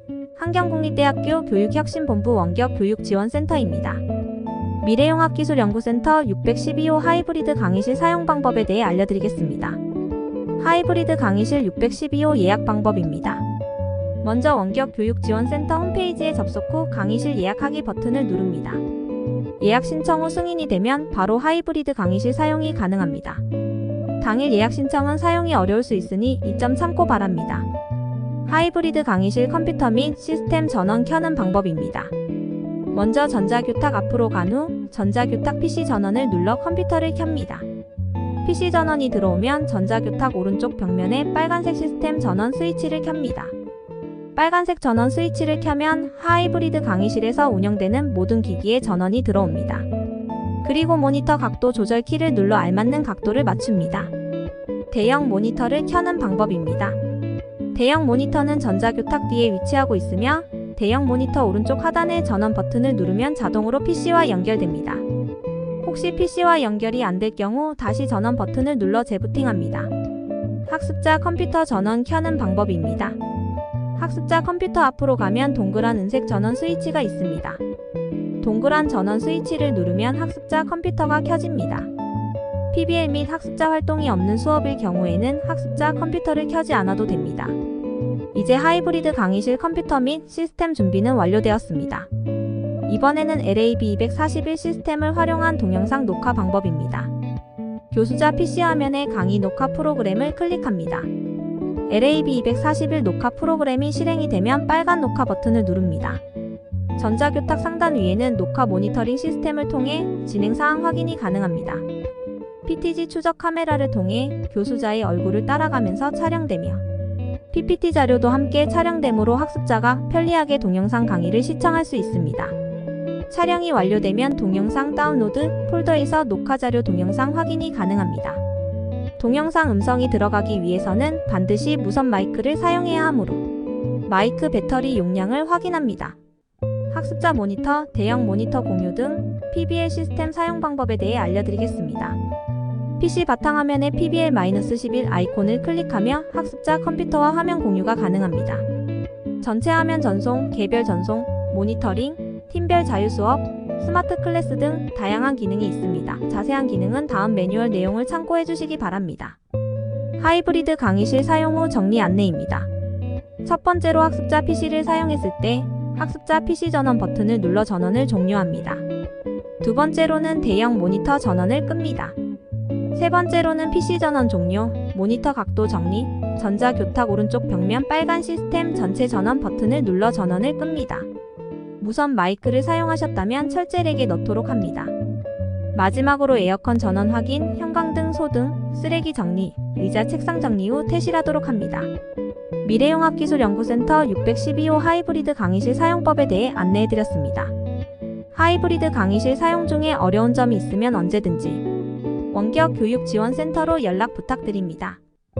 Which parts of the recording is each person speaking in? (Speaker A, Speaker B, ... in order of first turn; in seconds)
Speaker A: 0.4-4.0, 4.8-9.8, 10.6-13.4, 14.2-18.8, 19.6-23.4, 24.2-27.7, 28.5-32.1, 32.9-37.7, 38.4-43.5, 44.4-49.9, 50.6-54.1, 54.9-57.0, 57.7-65.0, 65.8-69.9, 70.7-73.2, 74.0-77.6, 78.4-81.9, 82.7-87.6, 88.3-92.1, 92.9-97.1, 97.9-101.1, 101.9-106.2, 107.0-111.9, 112.6-116.8, 117.5-122.5, 123.3-128.4, 129.2-133.4, 134.1-136.2, 136.9-142.2, 143.0-148.7, 149.4-159.4, 160.2-162.7, 163.4-168.8, 169.6-172.2, 172.9-181.1, 181.8-184.9, 185.7-191.9, 192.6-197.5, 198.3-201.7, 202.3-205.0